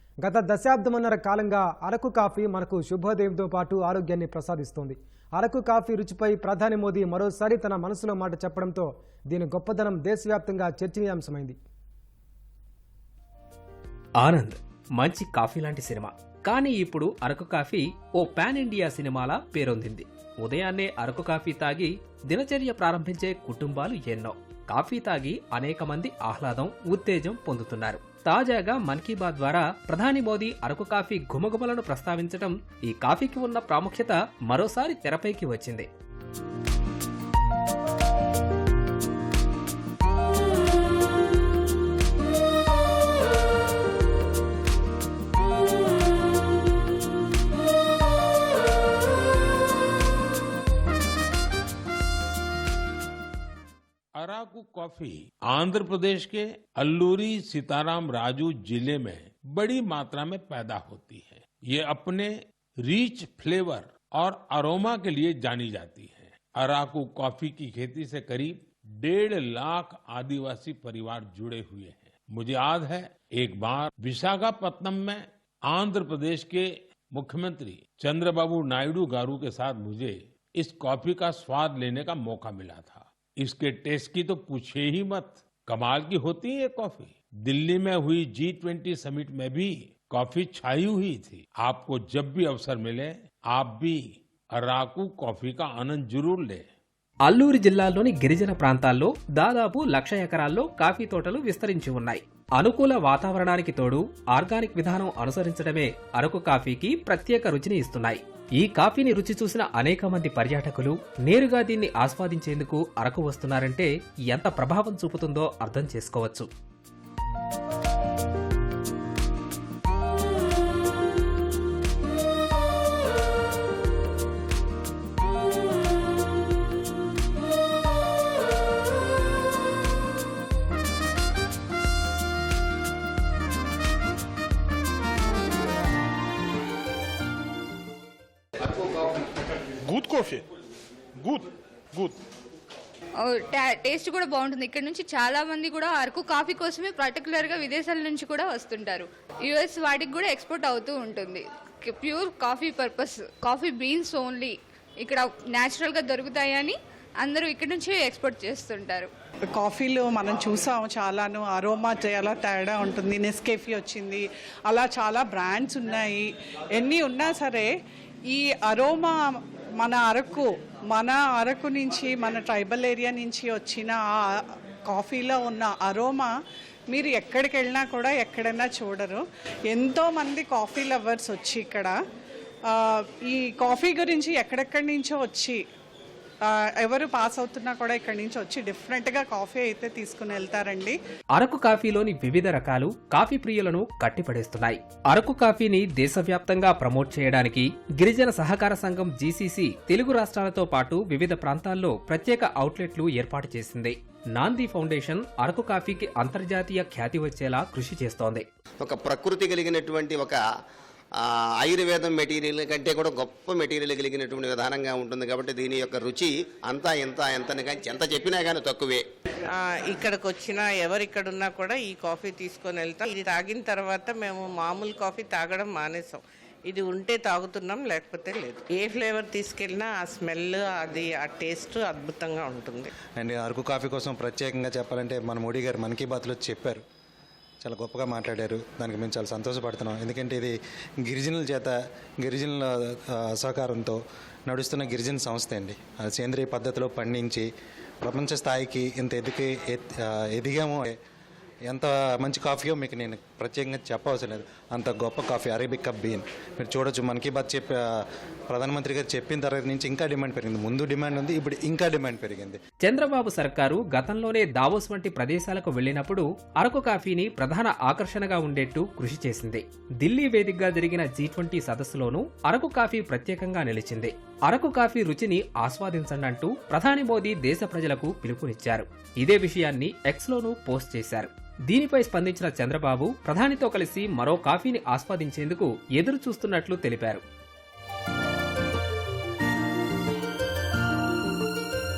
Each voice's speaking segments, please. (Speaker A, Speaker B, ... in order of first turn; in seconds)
Speaker A: 0.2-11.6
Speaker B: 14.2-35.9, 97.3-116.5, 191.3-208.4, 262.8-287.2
Speaker C: 54.2-94.0, 94.5-96.7
Speaker D: 139.9-140.4, 141.2-142.2, 219.5-232.9
Speaker E: 143.2-159.1
Speaker F: 159.5-167.7, 168.3-169.2, 169.8-176.3, 176.9-182.0, 182.7-185.6, 186.4-191.0
Speaker G: 208.8-210.4, 211.7-219.0
Speaker H: 233.2-236.8, 237.6-247.5, 248.0-251.0, 251.7-257.8, 258.5-262.6